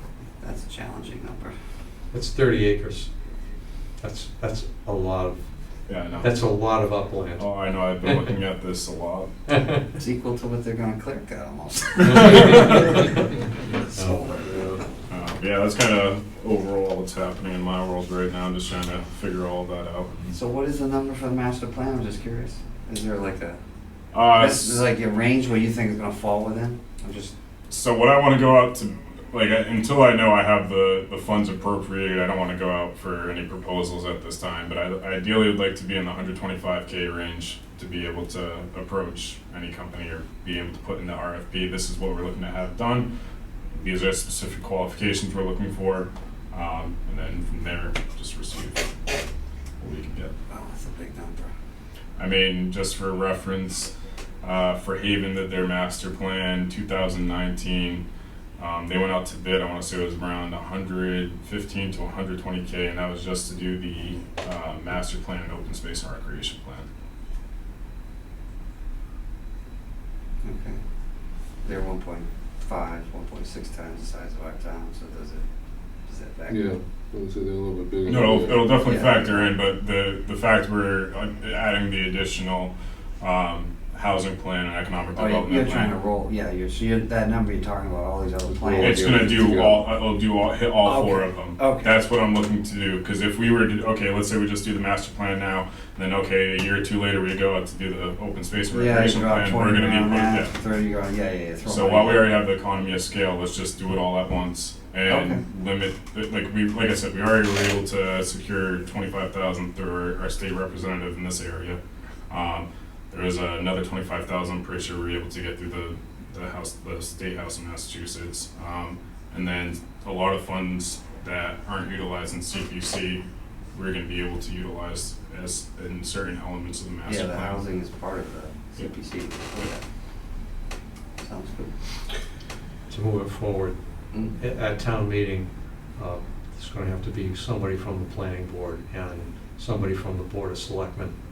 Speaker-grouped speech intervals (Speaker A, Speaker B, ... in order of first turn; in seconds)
Speaker A: 0.4-1.5, 10.0-13.1, 13.6-14.6, 20.3-23.6, 24.3-27.3, 50.5-51.5, 70.4-70.8, 71.6-75.4, 76.0-76.7, 78.6-79.5, 85.1-89.4, 90.8-91.9, 98.7-102.3, 105.0-105.4, 127.0-129.8, 131.2-131.7
Speaker B: 2.1-3.1, 4.0-5.4, 6.2-8.2, 12.0-13.2, 13.9-14.2, 132.9-133.8, 134.4-141.2
Speaker C: 5.9-6.4, 7.4-9.3, 12.1-12.7, 15.1-20.1, 24.1-24.9, 27.7-43.1, 43.8-48.9, 49.8-50.3, 52.2-53.9, 54.4-58.0, 58.6-66.9, 78.0-85.9, 88.8-100.5, 101.6-111.8, 112.3-123.2, 123.7-127.6
Speaker D: 14.4-14.8, 76.5-78.8, 88.4-89.8